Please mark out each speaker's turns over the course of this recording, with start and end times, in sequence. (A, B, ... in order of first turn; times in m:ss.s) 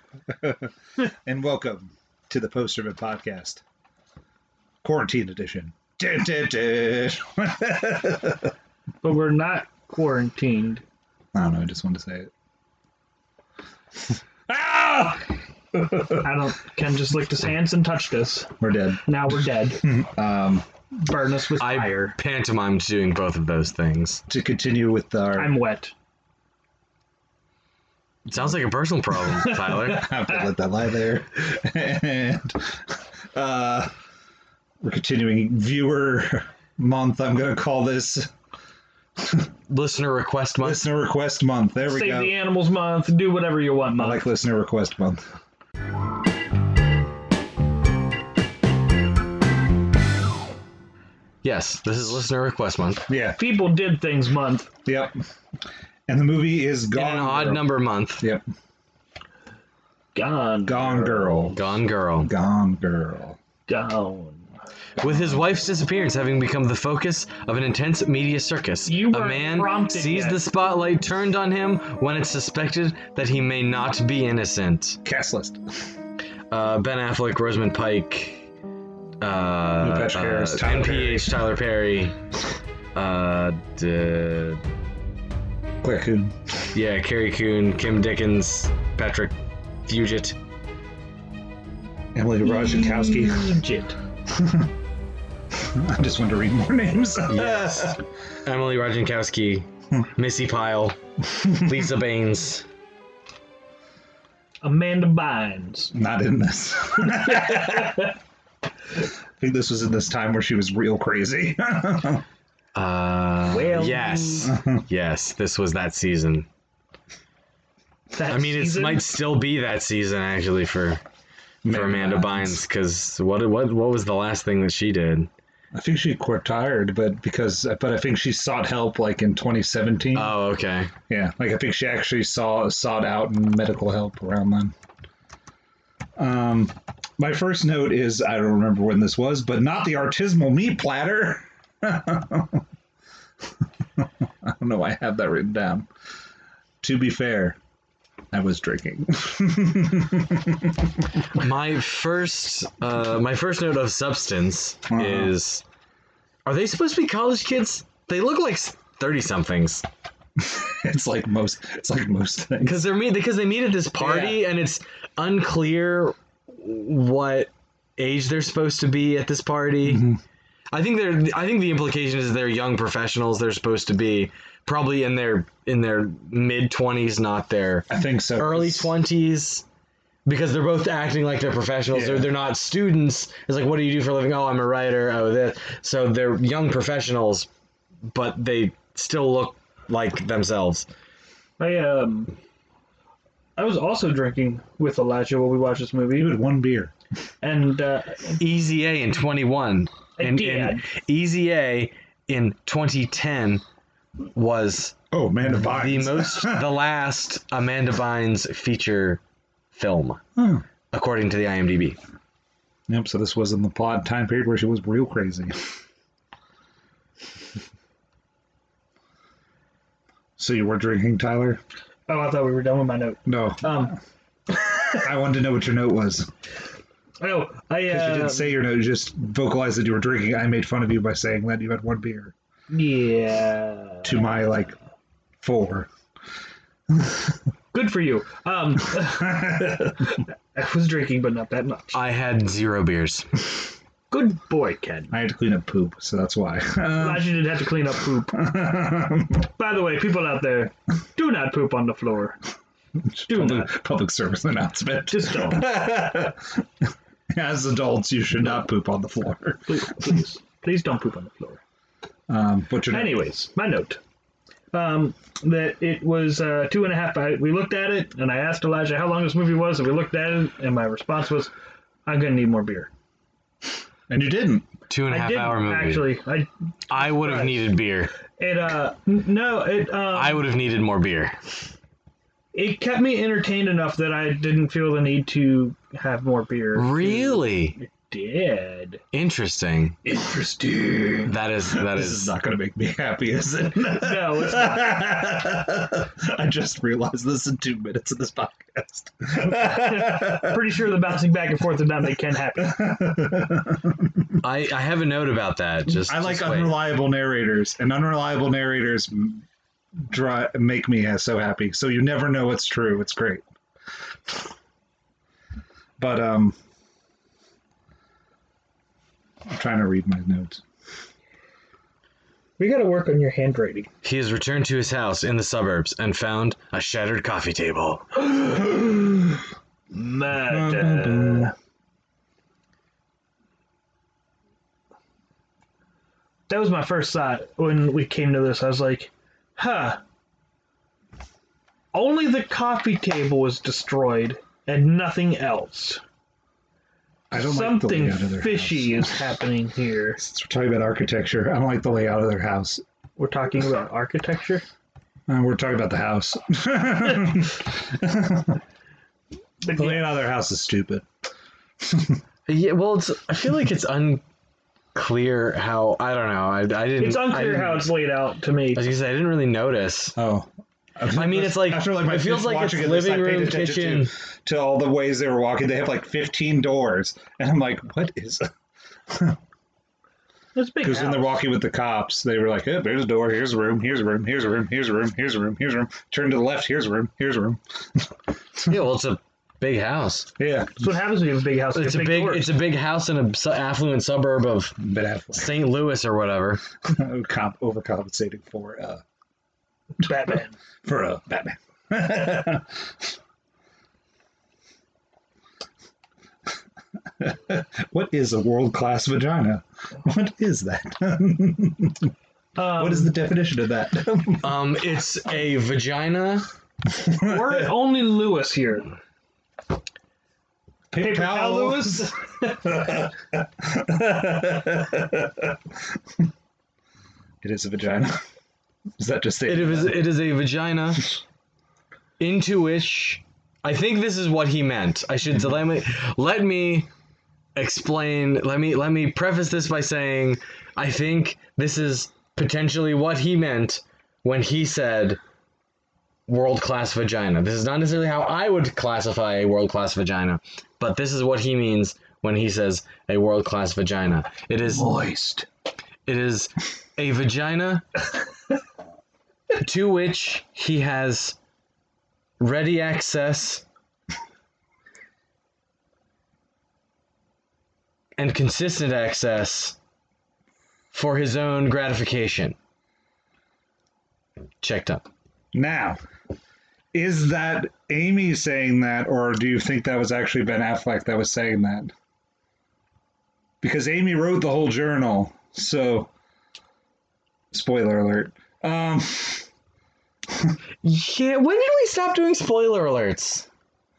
0:00.3-0:03.6 A
0:04.8-0:08.5 A
0:09.0-0:10.8 B
0:11.3-0:12.3 A
0:14.1-0:16.3 A
0:16.2-0:18.5 B
0:18.6-0:19.0 A
0:19.1-0:19.8 B
0:19.8-0:20.6 A
0:21.0-0:22.2 B
0:21.6-0:24.2 C
0:24.3-0:25.6 A
0:25.4-0:25.9 B
0:28.3-0:30.1 C
0:29.3-0:30.5 B
0:29.9-0:33.9 A
0:34.8-0:38.3 A
0:39.2-0:39.5 A
0:39.7-0:40.8 C
0:40.6-0:42.3 A
0:41.9-0:44.2 B
0:44.0-0:45.2 A
0:51.4-0:53.0 C
0:53.1-0:53.4 A
0:53.4-0:54.7 B
0:54.8-0:55.2 A
0:56.1-0:58.4 A
0:56.9-0:58.2 C
1:00.1-1:01.5 B
1:00.6-1:01.6 A
1:01.5-1:02.3 C
1:02.2-1:03.4 A
1:03.7-1:04.4 B
1:05.0-1:15.0 C
1:08.8-1:10.4 B
1:15.0-1:15.8 A
1:16.5-1:18.5 C
1:19.2-1:22.2 C
1:19.8-1:21.4 A
1:22.9-1:24.6 C
1:25.8-1:26.4 A
1:26.7-1:29.3 C
1:29.8-1:30.4 C
1:32.1-1:33.6 A
1:32.4-1:34.0 B
1:34.3-1:34.7 A
1:35.5-1:38.0 A
1:37.3-1:42.6 C
1:41.4-1:41.7 A
1:44.6-1:45.9 B
1:45.9-1:48.0 A
1:47.0-1:48.1 B
1:49.4-1:52.2 A
1:52.7-1:56.5 C
1:53.5-1:54.5 B
1:54.4-1:54.8 A
1:58.1-1:59.1 B
1:58.3-2:01.0 C
2:01.6-2:02.6 A
2:01.6-2:05.3 C
2:05.7-2:10.3 A
2:10.1-2:10.9 C
2:11.1-2:14.7 A
2:16.2-2:22.6 A
2:24.0-2:25.9 A
2:26.8-2:27.6 A
2:28.3-2:31.1 A
2:31.3-2:35.6 C
2:34.9-2:35.3 A
2:36.4-2:39.8 C
2:40.4-2:42.8 A
2:42.6-2:50.1 C
2:44.0-2:44.4 A
2:49.8-2:50.2 A
2:50.7-2:59.6 C
2:57.9-2:58.9 A
3:00.2-3:07.5 C
3:01.9-3:02.3 A
3:08.1-3:10.8 C
3:11.6-3:12.3 B
3:13.6-3:16.4 B
3:16.1-3:16.9 A
3:17.4-3:18.4 B
3:18.4-3:23.6 C
3:20.2-3:20.8 B
3:24.3-3:24.9 C
3:25.1-3:26.7 A
3:25.5-3:29.2 C
3:29.7-3:30.2 C
3:30.4-3:30.6 A
3:30.9-3:32.0 C
3:32.9-3:35.5 A
3:40.4-3:41.6 A
3:42.1-3:44.0 B
3:43.2-3:43.9 A
3:44.5-3:45.0 B
3:45.0-3:46.3 A
3:47.2-3:48.6 B
3:47.8-3:52.3 A
3:52.7-3:54.3 B
3:54.0-3:54.8 A
3:55.4-3:55.9 A
3:56.9-3:57.3 A
3:57.7-4:02.0 B
3:59.1-4:00.1 A
4:01.9-4:03.3 C
4:04.1-4:05.1 B
4:05.1-4:07.4 A
4:07.0-4:08.4 B
4:08.3-4:09.5 A
4:09.6-4:12.4 B
4:13.0-4:19.8 A
4:13.3-4:13.7 B
4:15.1-4:15.6 B
4:19.7-4:21.6 B
4:22.3-4:23.1 A
4:22.9-4:24.0 B
4:24.7-4:31.5 B
4:32.0-4:32.9 B
4:34.1-4:34.7 A
4:34.9-4:36.1 C
4:35.1-4:37.7 B
4:36.9-4:38.1 C
4:38.4-4:40.4 B
4:40.1-4:41.3 C
4:42.5-4:49.0 B
4:46.7-4:47.8 C
4:49.1-4:50.0 C
4:50.1-4:51.3 B
4:51.2-4:52.3 C
4:51.7-5:00.8 A
4:53.9-4:54.8 B
4:59.5-5:02.9 B
5:02.6-5:04.4 A
5:04.4-5:06.8 C
5:06.0-5:09.4 A
5:10.0-5:13.4 A
5:16.0-5:16.6 A
5:19.5-5:20.6 A
5:22.6-5:23.9 B
5:24.0-5:28.0 C
5:28.2-5:29.3 B
5:29.9-5:31.5 B
5:30.5-5:31.5 A
5:36.5-5:40.0 B
5:41.9-5:46.0 B
5:47.3-5:49.2 A
5:47.3-5:50.2 B
5:50.2-5:52.8 A
5:53.2-5:54.6 B
5:55.3-5:58.6 A
5:59.6-6:00.1 B
5:59.7-6:01.0 A
6:01.8-6:02.2 A
6:02.5-6:04.2 C
6:04.9-6:07.9 C
6:07.0-6:08.8 B
6:08.7-6:10.2 C
6:10.2-6:18.5 A
6:11.1-6:14.1 C
6:19.1-6:19.4 A
6:20.5-6:21.4 B
6:20.8-6:28.8 A
6:28.6-6:30.3 C
6:30.4-6:30.8 A
6:30.8-6:32.5 B
6:31.7-6:34.8 C
6:34.8-6:35.5 A
6:35.3-6:36.6 C
6:36.8-6:39.0 A
6:40.0-6:40.5 B
6:40.8-6:42.8 A
6:47.2-6:52.1 A
6:52.6-6:53.1 B
6:52.7-6:54.5 A
6:54.4-6:56.5 C
6:57.1-6:57.6 A
6:57.2-6:58.9 B
7:00.9-7:05.6 A
7:01.0-7:02.6 B
7:07.4-7:08.2 A
7:09.0-7:10.0 A
7:09.4-7:11.1 C
7:12.2-7:16.9 C
7:17.6-7:25.2 C
7:26.3-7:35.0 C
7:34.8-7:35.4 B
7:36.0-7:37.8 C
7:39.6-7:41.4 C
7:42.4-7:43.6 C
7:48.2-7:49.8 C
7:50.9-7:52.6 C
7:54.6-7:55.0 C
7:55.5-7:56.0 A
7:56.9-8:01.9 A
8:03.6-8:06.1 A
8:07.5-8:09.5 A
8:10.3-8:10.6 A
8:10.8-8:13.5 C